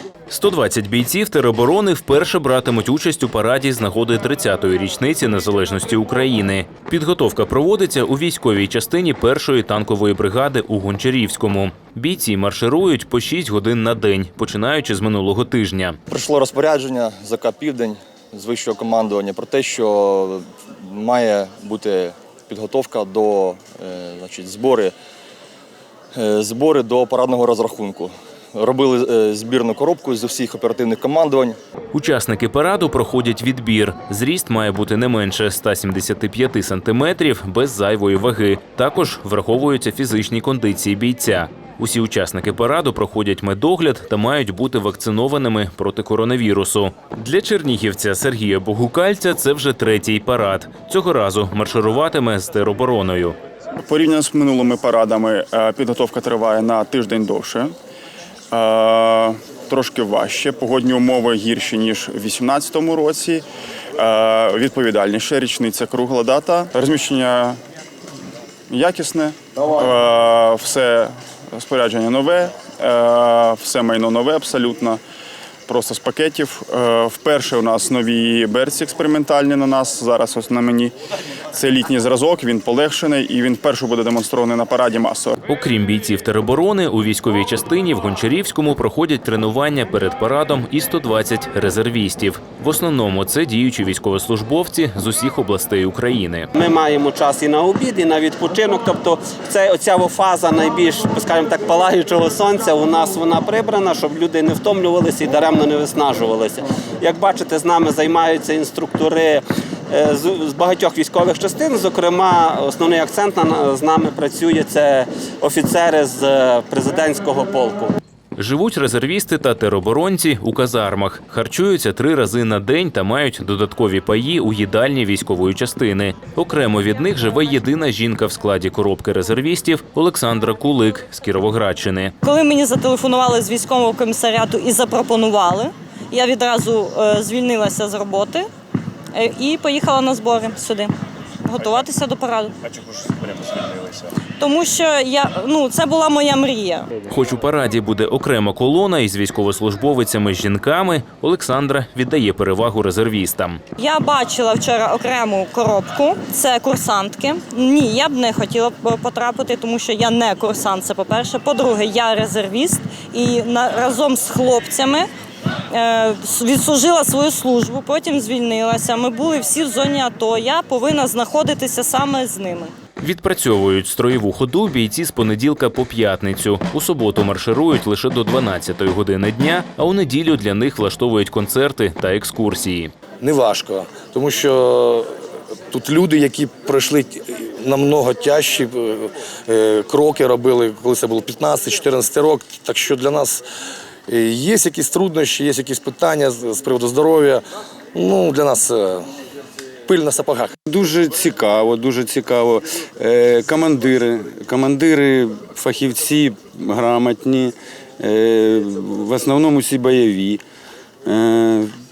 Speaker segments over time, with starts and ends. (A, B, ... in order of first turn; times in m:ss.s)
0:00.3-0:16.0 A
0:16.1-0:24.9 B
0:26.2-0:31.6 B
0:31.9-0:53.4 A
0:53.8-0:57.7 C
0:58.5-1:03.4 C
1:04.0-1:07.6 C
1:08.7-1:15.0 C
1:15.7-1:20.9 C
1:21.5-1:25.4 C
1:25.5-1:36.5 A
1:36.6-1:58.0 D
1:58.4-2:12.1 A
2:12.2-2:18.5 E
2:19.1-2:20.9 E
2:21.4-2:22.5 E
2:24.4-2:26.9 E
2:27.1-2:33.6 A
2:33.8-2:45.1 E
2:45.7-2:52.7 E
2:53.0-3:02.9 A
3:03.2-3:05.1 F
3:05.7-3:13.4 F
3:14.1-3:17.4 F
3:17.9-3:19.1 F
3:19.9-3:20.5 F
3:20.7-3:30.4 G
3:31.0-3:31.7 G